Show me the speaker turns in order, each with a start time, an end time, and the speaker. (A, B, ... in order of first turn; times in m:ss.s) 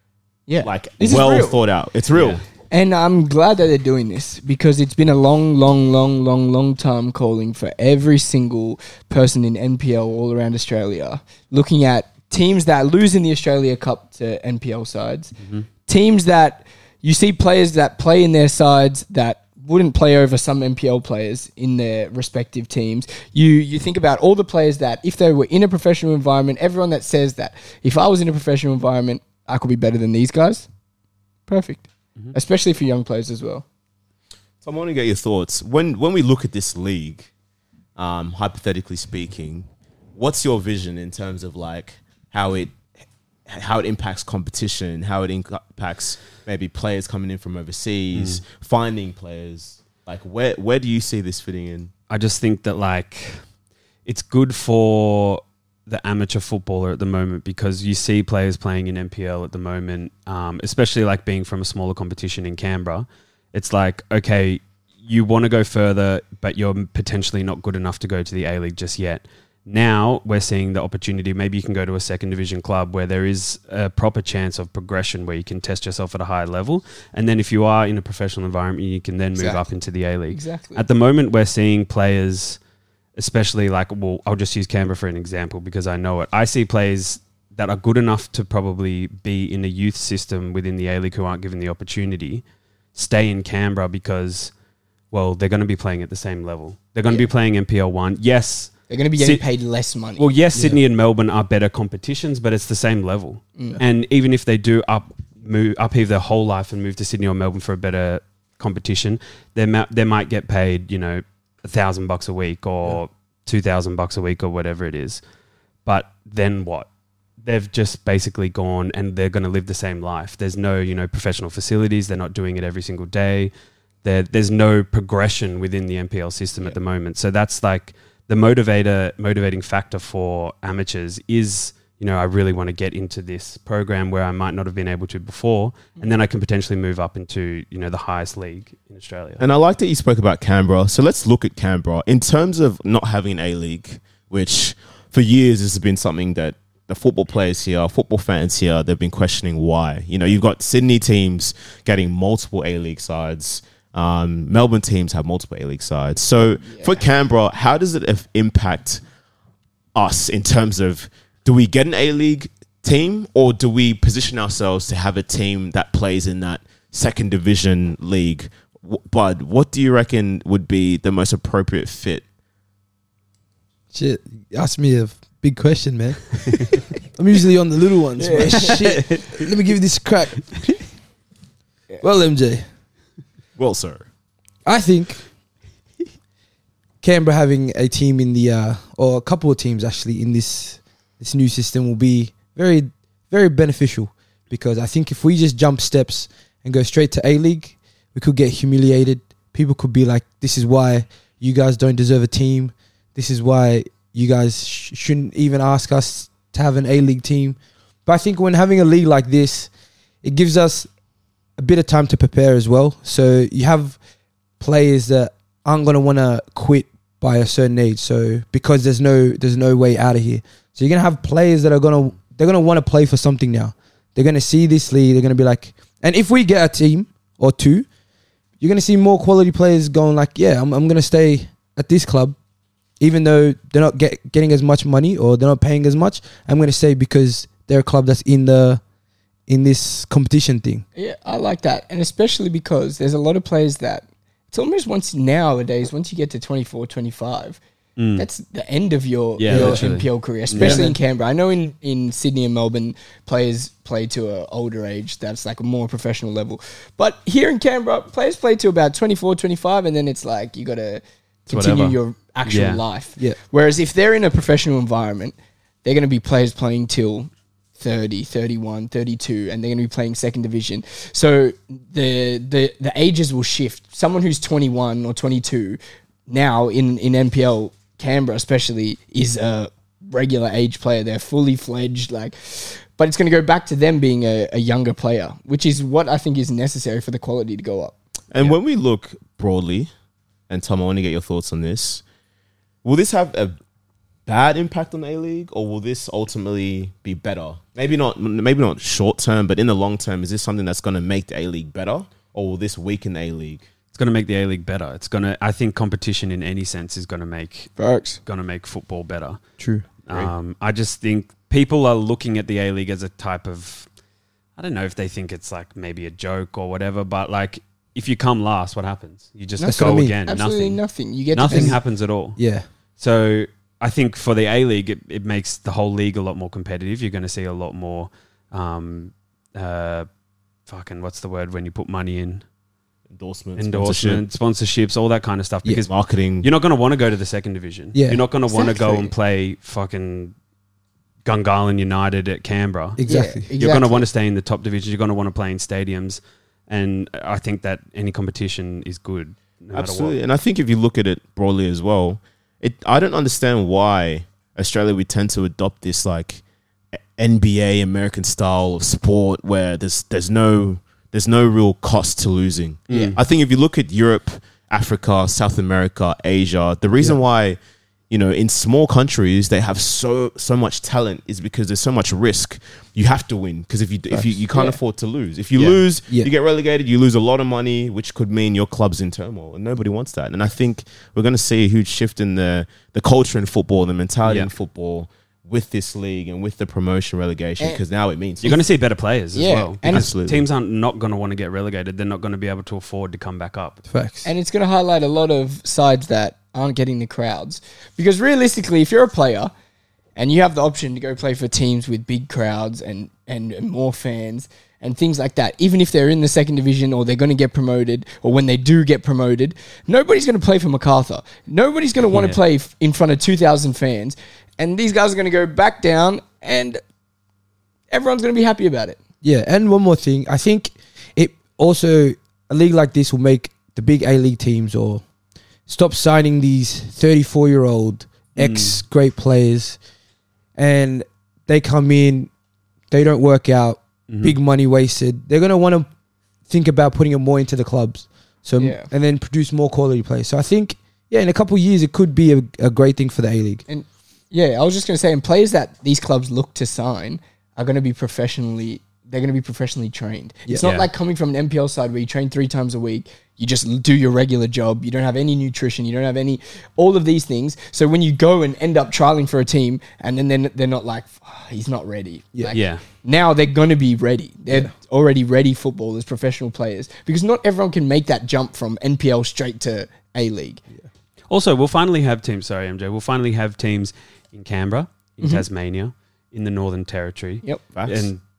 0:00.5-0:01.6 A
0:00.6-0:02.4 B
0:02.1-0:02.4 C
0:02.7-0:15.4 A
0:15.4-0:15.7 C
0:15.9-0:30.7 A
0:31.5-0:33.6 A
0:34.6-0:37.3 B
0:38.0-0:42.8 B
0:43.5-0:51.9 B
0:48.1-0:48.4 C
0:52.1-0:53.4 C
0:54.1-1:22.6 C
1:19.4-1:19.6 A
1:20.3-1:20.8 A
1:23.2-1:32.4 C
1:33.0-1:34.5 C
1:35.1-1:39.4 C
1:38.9-1:40.3 A
1:40.2-1:55.2 C
1:40.5-1:40.8 D
1:55.8-1:56.9 C
1:57.4-2:03.5 C
2:04.0-2:19.4 C
2:19.4-2:39.0 B
2:36.6-2:37.0 A
2:40.0-2:52.2 B
2:53.9-3:00.7 D
2:58.2-2:59.0 A
3:02.0-3:02.6 D
3:03.6-3:04.0 B
3:04.6-3:05.2 D
3:07.0-3:29.7 D
3:30.2-3:30.9 D
3:31.6-3:34.0 D
3:34.6-3:47.9 D
3:48.6-3:52.4 D
3:53.0-3:58.8 D
3:59.5-4:00.8 D
4:01.0-4:07.6 A
4:08.0-4:08.3 C
4:08.2-4:48.0 A
4:09.4-4:10.9 C
4:09.5-4:09.9 D
4:10.6-4:11.0 D
4:21.5-4:22.8 C
4:48.3-4:49.9 B
4:50.5-4:52.0 B
4:52.8-4:53.6 B
4:54.3-5:03.6 B
5:03.9-5:09.4 C
5:07.8-5:08.2 A
5:09.6-5:09.8 D
5:10.0-5:13.9 C
5:14.6-5:20.8 C
5:19.6-5:21.8 A
5:19.7-5:20.2 D
5:21.3-5:22.4 C
5:21.5-5:21.8 D
5:22.4-5:22.7 D
5:23.0-5:30.1 C
5:30.7-5:32.4 C
5:33.2-5:34.2 B
5:33.6-5:40.3 C
5:35.9-5:36.5 B
5:37.9-5:38.2 D
5:38.5-5:39.1 A
5:41.2-5:43.0 C
5:43.0-5:43.5 D
5:43.0-5:44.1 A
5:43.6-5:50.2 C
5:49.7-5:56.4 B
5:57.2-6:07.6 B
6:02.9-6:03.2 C
6:08.1-6:28.6 B
6:14.5-6:14.8 A
6:15.6-6:15.8 C
6:24.2-6:24.5 C
6:28.4-6:33.8 C
6:29.3-6:30.1 A
6:29.9-6:30.4 B
6:33.9-6:34.3 D
6:34.2-6:39.5 A
6:40.2-6:56.8 A
6:52.1-6:52.4 C
6:57.9-6:59.0 A
6:59.2-7:05.0 D
7:05.7-7:09.8 D
7:08.4-7:08.8 C
7:10.6-7:12.3 D
7:12.9-7:15.9 D
7:14.1-7:14.4 C
7:16.5-7:23.6 D
7:18.6-7:18.9 A
7:23.7-7:50.6 A
7:30.6-7:30.9 C
7:42.5-7:42.8 C
7:51.3-7:58.2 C
7:57.8-7:58.1 B